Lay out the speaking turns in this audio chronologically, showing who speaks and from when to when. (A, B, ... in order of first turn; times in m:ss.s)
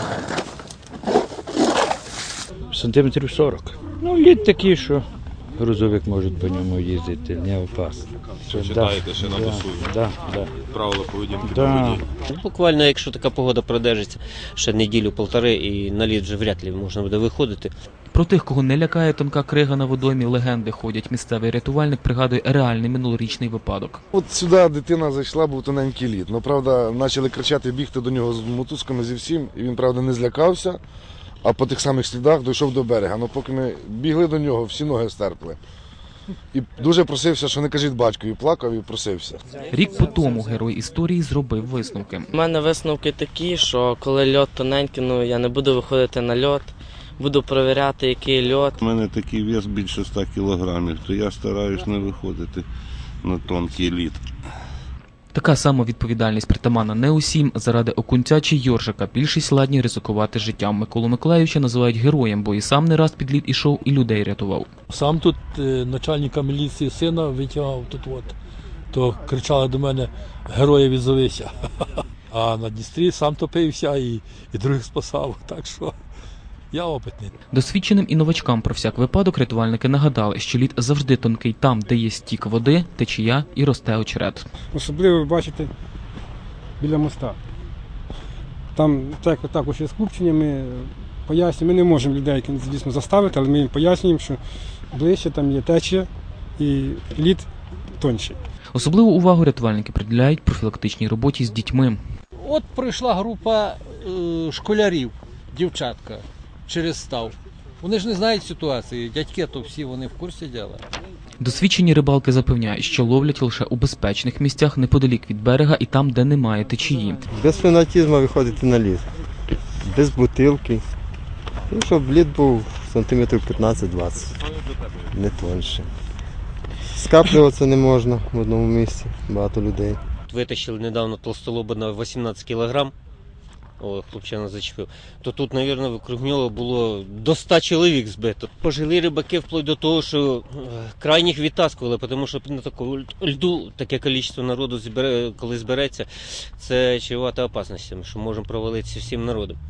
0:02.7-0:10.5 A
0:08.6-0:09.8 B
0:10.6-0:12.0 B
0:11.4-0:12.1 A
0:12.3-0:17.7 C
0:18.1-0:24.0 D
0:24.1-0:30.8 E
0:31.4-0:35.6 E
0:36.5-0:39.4 E
0:39.7-0:42.3 D
0:42.3-0:48.8 F
0:48.8-0:52.6 G
0:53.2-0:54.2 G
0:55.3-1:04.7 D
1:04.9-1:08.4 H
1:08.9-1:15.9 H
1:16.7-1:17.3 H
1:17.5-1:24.4 D
1:24.7-1:25.7 I
1:26.8-1:27.4 I
1:28.8-1:34.4 I
1:34.9-1:37.5 I
1:38.0-1:38.4 I
1:38.7-1:42.0 D
1:42.4-1:50.8 J
1:51.4-1:57.2 D
1:57.3-1:59.1 K
1:59.8-2:00.8 K
2:01.7-2:04.4 K
2:05.1-2:05.9 K
2:06.9-2:10.0 K
2:10.3-2:12.9 C
2:13.8-2:29.6 C